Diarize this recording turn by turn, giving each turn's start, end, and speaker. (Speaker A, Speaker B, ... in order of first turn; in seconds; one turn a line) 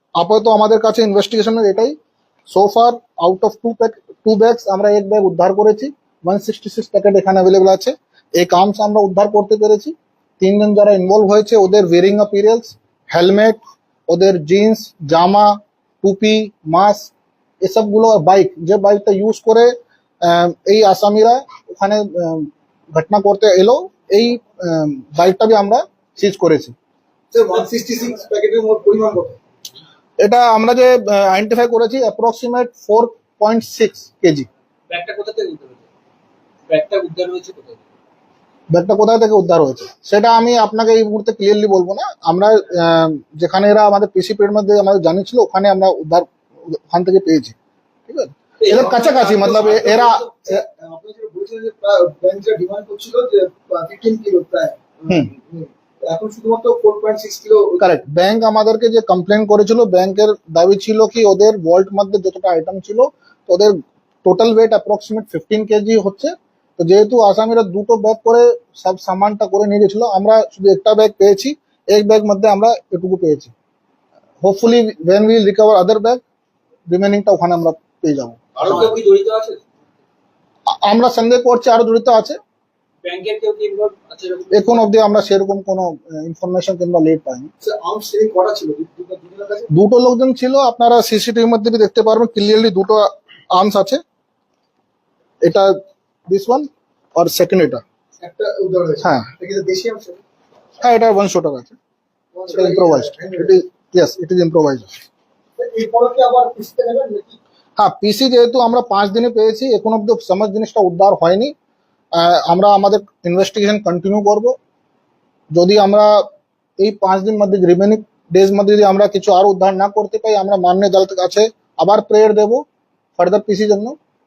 Speaker A: 0.2-1.9
Speaker A: 2.5-13.6
Speaker A: 14.1-17.1
Speaker A: 17.6-19.7
Speaker A: 20.2-26.7
Speaker B: 27.3-29.4
Speaker A: 30.2-34.5
Speaker C: 34.9-35.9
Speaker C: 36.7-37.8
Speaker A: 38.7-47.5
Speaker A: 48.1-50.5
Speaker C: 48.6-50.1
Speaker B: 48.7-57.9
Speaker A: 57.8-73.5
Speaker A: 74.4-76.2
Speaker A: 76.9-78.8
Speaker C: 78.6-79.7
Speaker B: 78.6-78.9
Speaker A: 80.7-82.4
Speaker C: 83.0-84.8
Speaker A: 84.5-87.5
Speaker B: 87.6-89.7
Speaker A: 89.7-94.0
Speaker A: 95.4-95.7
Speaker A: 96.3-97.8
Speaker B: 98.2-100.2
Speaker A: 100.8-101.8
Speaker B: 102.3-103.5
Speaker A: 102.5-105.0
Speaker B: 105.6-107.4
Speaker A: 107.8-111.5
Speaker A: 112.2-114.5
Speaker A: 115.5-116.2
Speaker A: 116.8-122.6
Speaker A: 123.2-123.9